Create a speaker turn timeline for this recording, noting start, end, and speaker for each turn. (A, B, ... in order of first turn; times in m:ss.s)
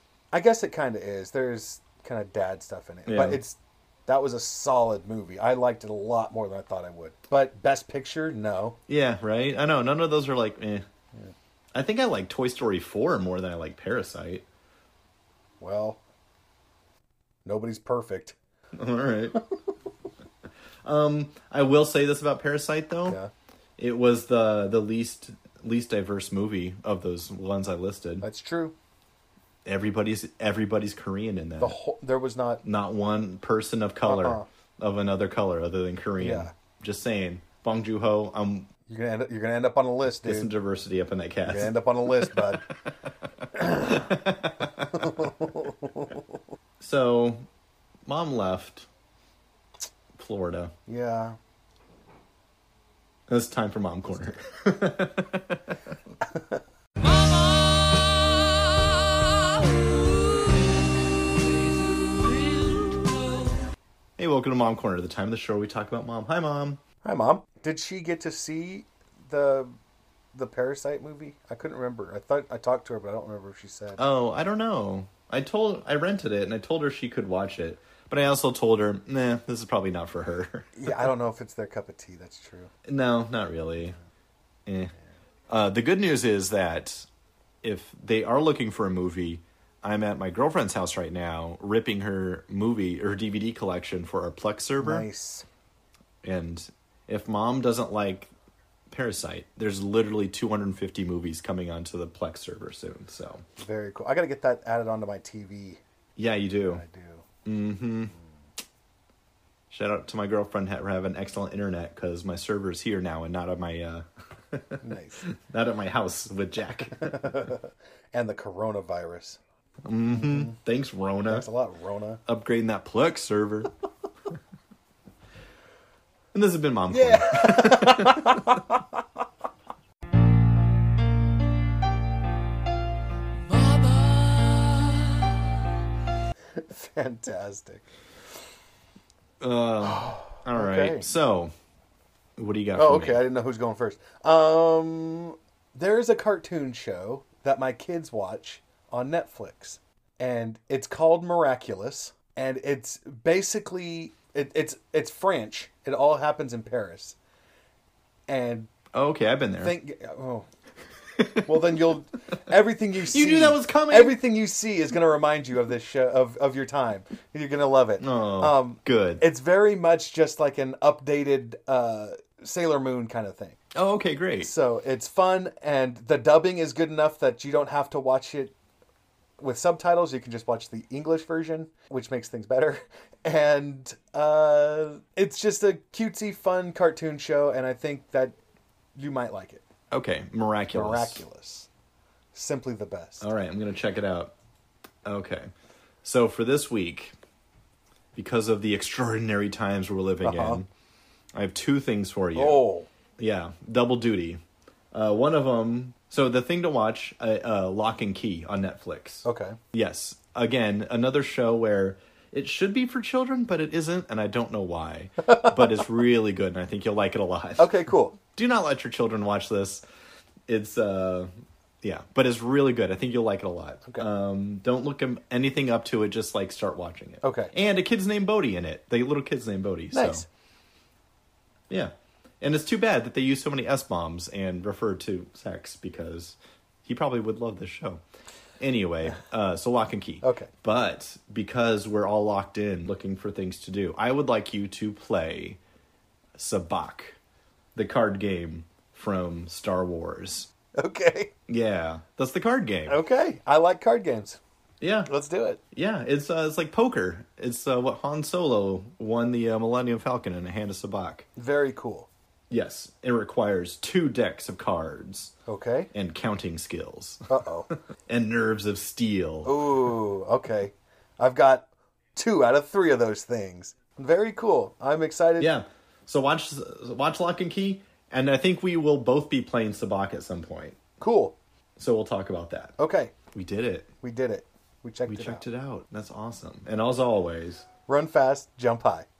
0:00.3-0:08.8 A
0:03.0-0:03.4 B
0:08.9-0:10.8 B
0:11.7-0:14.4 B
0:15.6-0:16.0 A
0:17.4-0:18.4 A
0:18.7-0:19.4 B
0:20.8-0:23.2 B
0:23.0-0:23.3 A
0:23.8-0:28.2 B
0:28.2-0:28.7 A
0:29.6-0:31.8 B
0:31.6-0:32.6 A
0:32.6-0:38.7 B
0:34.0-0:34.5 A
0:36.2-0:36.5 A
0:38.9-0:40.5 A
0:40.2-0:42.5 B
0:41.4-0:42.6 A
0:43.5-0:45.3 B
0:43.6-0:44.0 A
0:44.9-0:46.2 A
0:46.8-0:47.4 B
0:48.0-0:48.9 B
0:50.1-0:50.7 B
0:50.9-0:51.4 A
0:53.3-0:55.8 B
0:57.0-1:03.5 C
1:04.2-1:06.8 B
1:07.0-1:09.7 A
1:10.3-1:14.0 A
1:14.0-1:21.1 B
1:20.8-1:22.7 A
1:22.8-1:24.0 B
1:24.6-1:24.9 B
1:25.5-1:27.1 B
1:27.6-1:35.1 B
1:34.8-1:35.4 A
1:36.2-1:38.3 B
1:38.9-1:43.4 B
1:43.6-1:45.8 A
1:46.2-1:46.8 B
1:46.7-1:47.2 A
1:47.4-1:48.1 B
1:49.7-1:57.4 B
1:54.8-1:55.2 A
1:57.0-1:59.4 A
1:59.8-2:01.5 B
2:00.1-2:00.6 A
2:01.3-2:02.2 A
2:02.3-2:03.7 B
2:06.3-2:08.6 B
2:06.9-2:09.0 A
2:13.4-2:15.3 C
2:16.6-2:17.8 A
2:19.4-2:21.5 B
2:19.8-2:21.1 A
2:22.4-2:23.2 B
2:22.7-2:37.2 A
2:38.3-2:38.7 A
2:38.9-2:39.7 B
2:39.6-2:40.4 A
2:41.2-2:41.7 B
2:41.4-2:53.6 A
2:43.0-2:44.2 B
2:48.0-2:49.2 B
2:53.7-2:54.5 B
2:54.4-2:58.5 A
2:59.4-3:08.4 A
3:09.0-3:09.6 A
3:09.9-3:11.2 B
3:10.7-3:11.7 A
3:12.3-3:13.2 A
3:13.2-3:14.3 B
3:15.0-3:15.5 B
3:16.0-3:17.2 B
3:18.1-3:20.7 B
3:20.2-3:20.6 A
3:21.3-3:22.6 B
3:22.3-3:22.9 A
3:23.2-3:24.4 B
3:24.9-3:39.8 B
3:29.2-3:29.6 A
3:35.2-3:35.8 A
3:37.6-3:38.2 A
3:40.5-3:41.3 B
3:41.8-3:50.2 B
3:47.2-3:47.5 A
3:49.9-3:50.2 A
3:51.7-3:58.0 B
3:58.6-4:05.6 B
4:00.2-4:00.5 A
4:06.4-4:07.2 B
4:07.7-4:10.5 B
4:10.8-4:11.3 A
4:11.5-4:13.0 B
4:12.9-4:14.4 A
4:14.8-4:15.1 B
4:15.1-4:15.6 A
4:15.7-4:21.2 B
4:21.4-4:22.1 A
4:22.5-4:25.3 B
4:25.5-4:25.9 A
4:25.9-4:27.4 B
4:27.3-4:27.7 A
4:28.1-4:29.6 B
4:29.4-4:35.5 A
4:35.4-4:40.8 B
4:41.0-4:41.4 A
4:41.8-4:42.7 B
4:42.8-4:43.1 A
4:43.3-4:43.9 B
4:44.0-4:45.4 A
4:45.1-4:47.6 B
4:47.9-4:49.1 A